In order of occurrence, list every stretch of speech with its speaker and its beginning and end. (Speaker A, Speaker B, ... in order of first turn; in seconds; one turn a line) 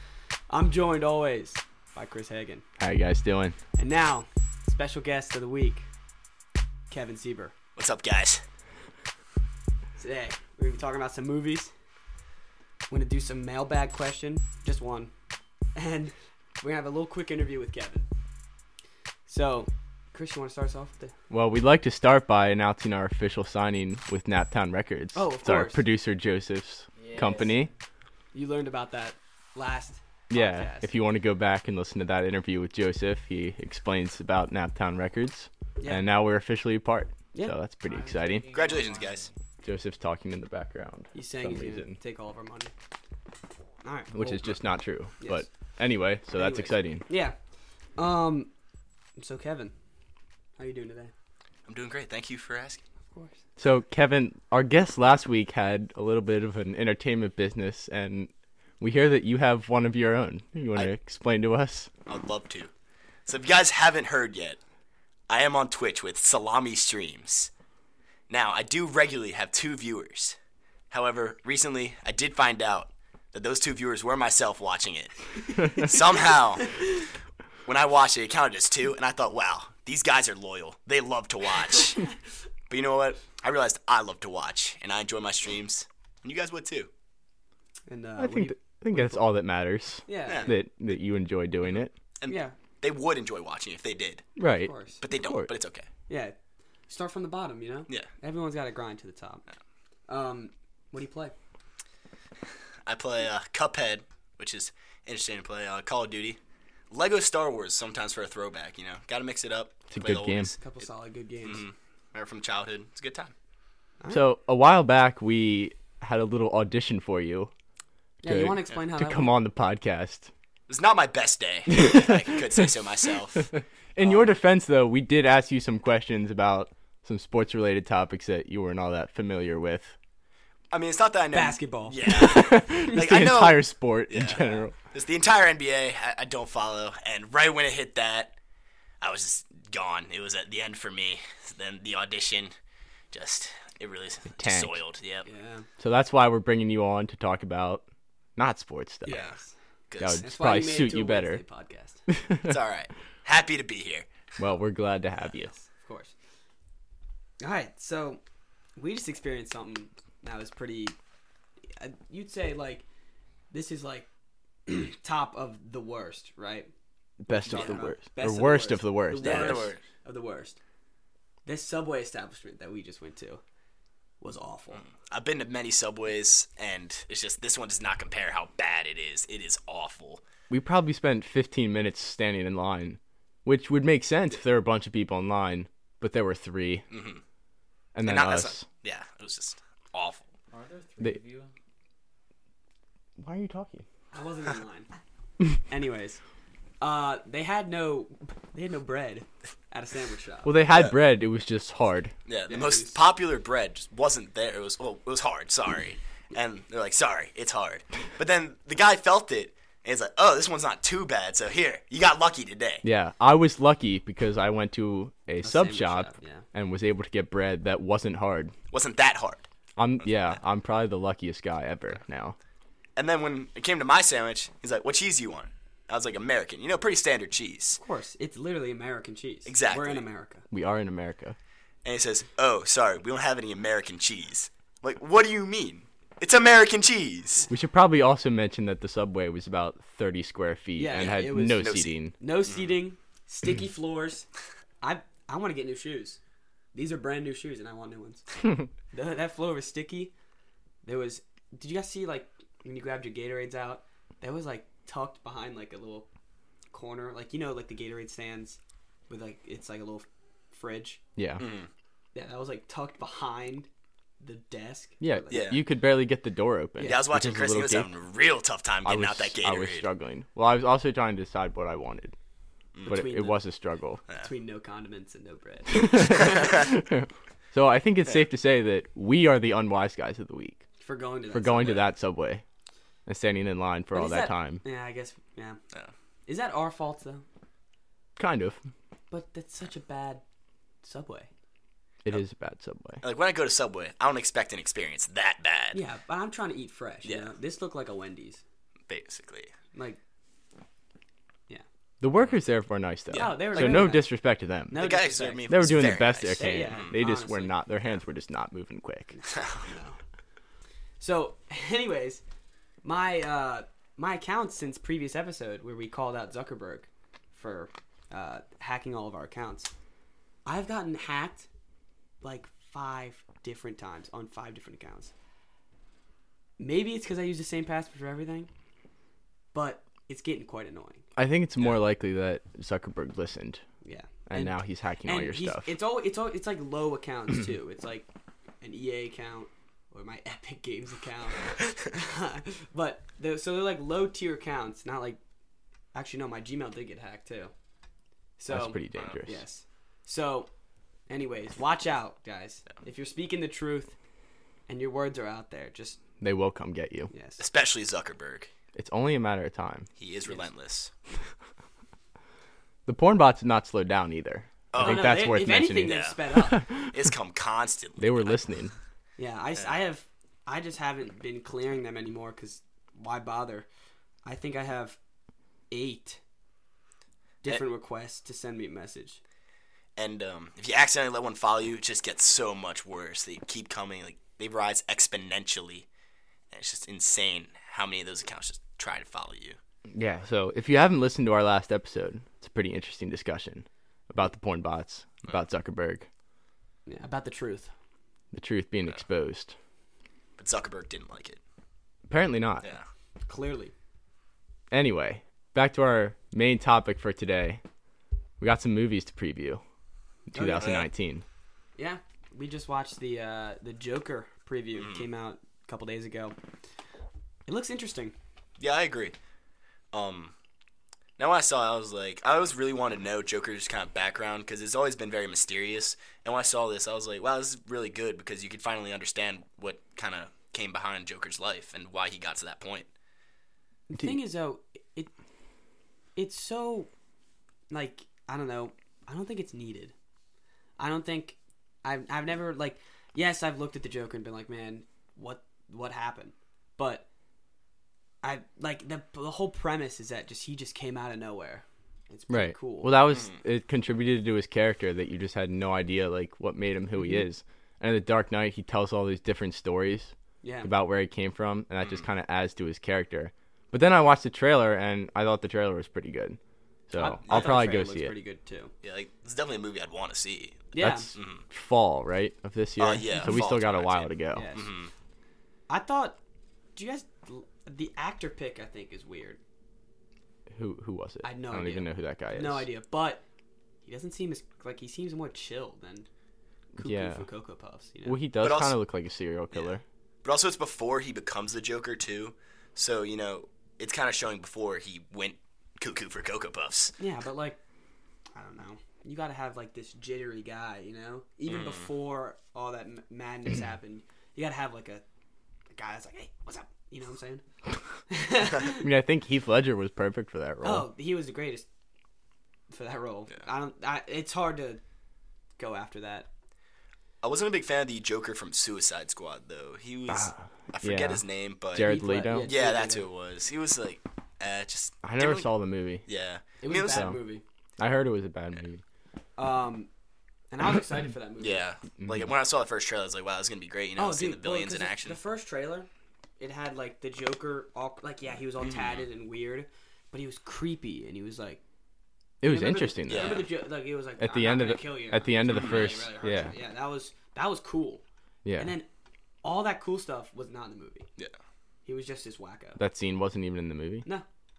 Speaker A: 0.5-2.6
Speaker B: 2.8-3.6
Speaker A: 3.8-5.9
Speaker A: 6.9-7.5
Speaker C: 7.8-8.4
Speaker A: 10.0-11.7
Speaker A: 12.9-15.1
Speaker A: 15.8-18.1
Speaker A: 19.2-21.1
Speaker B: 21.3-27.7
Speaker A: 25.1-25.8
Speaker D: 26.9-27.7
Speaker A: 28.3-30.9
Speaker B: 30.3-38.5
Speaker A: 35.8-36.0
Speaker D: 37.9-39.3
Speaker C: 38.5-39.3
Speaker B: 39.6-42.0
Speaker A: 41.1-42.7
Speaker A: 43.8-44.5
Speaker B: 44.1-47.0
Speaker A: 45.2-45.5
Speaker A: 46.3-47.4
Speaker A: 48.0-48.5
Speaker A: 49.2-49.7
Speaker A: 50.6-51.1
Speaker C: 51.7-52.8
Speaker A: 53.1-53.4
Speaker B: 53.6-61.9
Speaker C: 62.1-62.7
Speaker C: 63.2-64.6
Speaker C: 65.3-67.5
Speaker C: 68.3-70.4
Speaker C: 70.9-76.9
Speaker C: 77.7-82.1
Speaker C: 82.7-86.9
Speaker A: 87.9-89.2
Speaker B: 88.2-91.9
Speaker A: 90.0-90.5
Speaker C: 90.3-90.5
Speaker C: 92.2-94.3
Speaker A: 92.3-92.5
Speaker B: 94.4-95.5
Speaker A: 94.6-95.0
Speaker C: 95.0-95.9
Speaker A: 96.1-96.3
Speaker A: 96.9-99.4
Speaker A: 100.1-101.3
Speaker C: 102.8-106.4
Speaker C: 106.9-110.6
Speaker B: 109.9-110.5
Speaker A: 110.6-111.7
Speaker C: 111.4-113.3
Speaker B: 114.1-117.5
Speaker A: 118.2-119.4
Speaker B: 118.2-120.3
Speaker C: 120.7-123.5
Speaker B: 121.7-122.2
Speaker B: 123.5-129.9
Speaker C: 130.7-138.3
Speaker A: 131.3-133.3
Speaker B: 132.1-134.7
Speaker C: 139.0-142.5
Speaker C: 143.1-145.3
Speaker B: 144.4-144.8
Speaker A: 145.2-145.7
Speaker B: 145.8-147.8
Speaker B: 148.3-149.2
Speaker C: 149.0-149.4
Speaker A: 149.0-149.5
Speaker C: 149.9-150.2
Speaker B: 150.0-151.4
Speaker A: 150.2-152.0
Speaker B: 152.1-152.5
Speaker C: 152.4-154.2
Speaker B: 154.4-155.5
Speaker A: 155.4-156.1
Speaker A: 157.4-158.2
Speaker A: 158.8-160.9
Speaker A: 161.7-162.8
Speaker A: 163.5-164.1
Speaker A: 164.7-166.7
Speaker B: 167.2-169.7
Speaker A: 167.4-170.6
Speaker C: 169.2-169.8
Speaker A: 171.4-173.4
Speaker A: 174.2-174.8
Speaker C: 174.8-180.2
Speaker B: 180.5-186.8
Speaker C: 186.9-187.2
Speaker B: 187.9-188.6
Speaker C: 188.0-190.2
Speaker D: 190.5-191.5
Speaker B: 193.2-193.8
Speaker A: 194.1-194.9
Speaker A: 195.7-196.2
Speaker A: 196.8-200.6
Speaker B: 200.4-202.1
Speaker C: 202.2-212.8
Speaker A: 202.5-203.0
Speaker B: 212.8-218.5
Speaker A: 215.4-216.4
Speaker C: 218.7-219.5
Speaker B: 219.8-222.4
Speaker C: 222.9-227.8
Speaker A: 227.8-230.4
Speaker C: 229.4-230.0
Speaker B: 230.5-231.3
Speaker C: 231.8-237.5
Speaker B: 237.5-242.1
Speaker A: 240.8-244.3
Speaker C: 240.9-241.9
Speaker A: 244.8-246.2
Speaker A: 246.7-248.3
Speaker A: 248.9-250.1
Speaker A: 250.8-256.1
Speaker A: 256.7-261.0
Speaker B: 261.2-261.4
Speaker C: 261.4-261.7
Speaker A: 262.1-263.7
Speaker A: 264.2-265.6
Speaker B: 265.0-267.9
Speaker C: 265.3-265.6
Speaker A: 266.8-267.1
Speaker C: 266.8-269.9
Speaker B: 268.8-272.1
Speaker C: 272.7-273.1
Speaker A: 272.9-273.4
Speaker B: 272.9-274.0
Speaker A: 274.1-276.6
Speaker B: 275.7-280.6
Speaker A: 280.8-281.9
Speaker B: 281.3-282.4
Speaker B: 283.1-284.6
Speaker A: 283.9-285.6
Speaker A: 286.2-287.2
Speaker B: 288.2-288.6
Speaker A: 289.1-290.2
Speaker A: 290.8-291.3
Speaker B: 292.0-293.0
Speaker C: 293.0-295.8
Speaker A: 295.7-298.4
Speaker C: 297.0-297.3
Speaker C: 298.9-299.5
Speaker A: 299.7-300.0
Speaker B: 302.0-304.9
Speaker C: 303.1-303.9
Speaker A: 303.1-304.1
Speaker A: 304.7-305.5
Speaker C: 304.7-306.9
Speaker B: 305.5-309.1
Speaker A: 306.4-307.5
Speaker A: 309.1-310.0
Speaker C: 309.3-309.7
Speaker A: 311.0-312.2
Speaker A: 312.8-319.7
Speaker A: 320.4-321.5
Speaker A: 322.2-325.1
Speaker A: 326.6-328.5
Speaker A: 329.5-331.0
Speaker B: 331.1-333.6
Speaker A: 333.8-338.1
Speaker B: 334.3-335.7
Speaker A: 338.6-345.2
Speaker A: 345.9-347.5
Speaker A: 348.4-350.5
Speaker B: 348.5-349.4
Speaker A: 351.1-353.9
Speaker A: 354.7-356.0
Speaker B: 356.2-357.1
Speaker A: 357.1-357.4
Speaker C: 357.4-358.5
Speaker B: 358.7-359.9
Speaker C: 360.0-360.9
Speaker B: 362.9-367.0
Speaker C: 364.7-365.3
Speaker A: 364.8-366.6
Speaker C: 365.8-366.2
Speaker C: 366.8-368.4
Speaker B: 368.0-368.7
Speaker A: 369.2-373.7
Speaker A: 374.2-375.0
Speaker A: 375.7-376.2
Speaker A: 377.4-379.2
Speaker C: 379.9-385.9
Speaker C: 386.5-389.6
Speaker B: 389.9-396.1
Speaker A: 396.9-397.7
Speaker B: 398.3-399.5
Speaker C: 400.4-401.4
Speaker B: 402.1-402.6
Speaker A: 403.2-403.7
Speaker B: 404.7-407.6
Speaker B: 408.4-409.6
Speaker B: 410.3-411.2
Speaker A: 410.3-410.8
Speaker C: 410.6-410.9
Speaker A: 411.8-416.4
Speaker C: 414.8-415.0
Speaker A: 417.4-418.1
Speaker C: 418.6-419.1
Speaker C: 419.9-420.3
Speaker C: 421.2-432.9
Speaker A: 433.9-435.1
Speaker A: 436.1-436.9
Speaker A: 437.7-439.9
Speaker A: 440.8-447.1
Speaker A: 448.2-452.9
Speaker B: 452.3-468.1
Speaker A: 460.4-460.7
Speaker A: 466.9-468.7
Speaker C: 467.2-467.6
Speaker C: 468.8-471.4
Speaker A: 470.7-471.1
Speaker B: 470.8-474.5
Speaker C: 472.8-474.9
Speaker A: 474.3-474.7
Speaker A: 475.7-476.2
Speaker A: 476.8-479.4
Speaker B: 480.5-482.7
Speaker A: 481.2-483.2
Speaker A: 483.8-486.1
Speaker A: 486.7-488.2
Speaker B: 486.8-487.2
Speaker B: 488.0-489.8
Speaker C: 488.4-488.8
Speaker C: 490.2-496.9
Speaker A: 497.0-497.6
Speaker A: 498.3-505.0
Speaker C: 501.5-501.9
Speaker A: 505.7-507.4
Speaker A: 508.1-508.9
Speaker B: 508.6-510.9
Speaker A: 510.6-511.6
Speaker A: 512.7-514.8
Speaker A: 515.6-516.3
Speaker C: 517.2-525.5
Speaker B: 520.1-522.5
Speaker A: 521.8-523.1
Speaker B: 525.0-526.0
Speaker C: 526.0-527.1
Speaker A: 526.6-527.4
Speaker B: 526.8-527.2
Speaker B: 527.8-528.8
Speaker A: 529.4-529.9
Speaker A: 530.5-531.6
Speaker C: 531.4-535.2
Speaker B: 532.0-532.3
Speaker A: 534.0-541.6
Speaker C: 538.6-539.0
Speaker B: 542.4-543.5
Speaker A: 542.4-548.0
Speaker C: 543.1-543.5
Speaker B: 544.2-546.5
Speaker C: 545.5-546.0
Speaker B: 548.4-548.7
Speaker A: 548.6-548.9
Speaker A: 549.4-551.1
Speaker A: 551.8-552.8
Speaker B: 552.8-554.0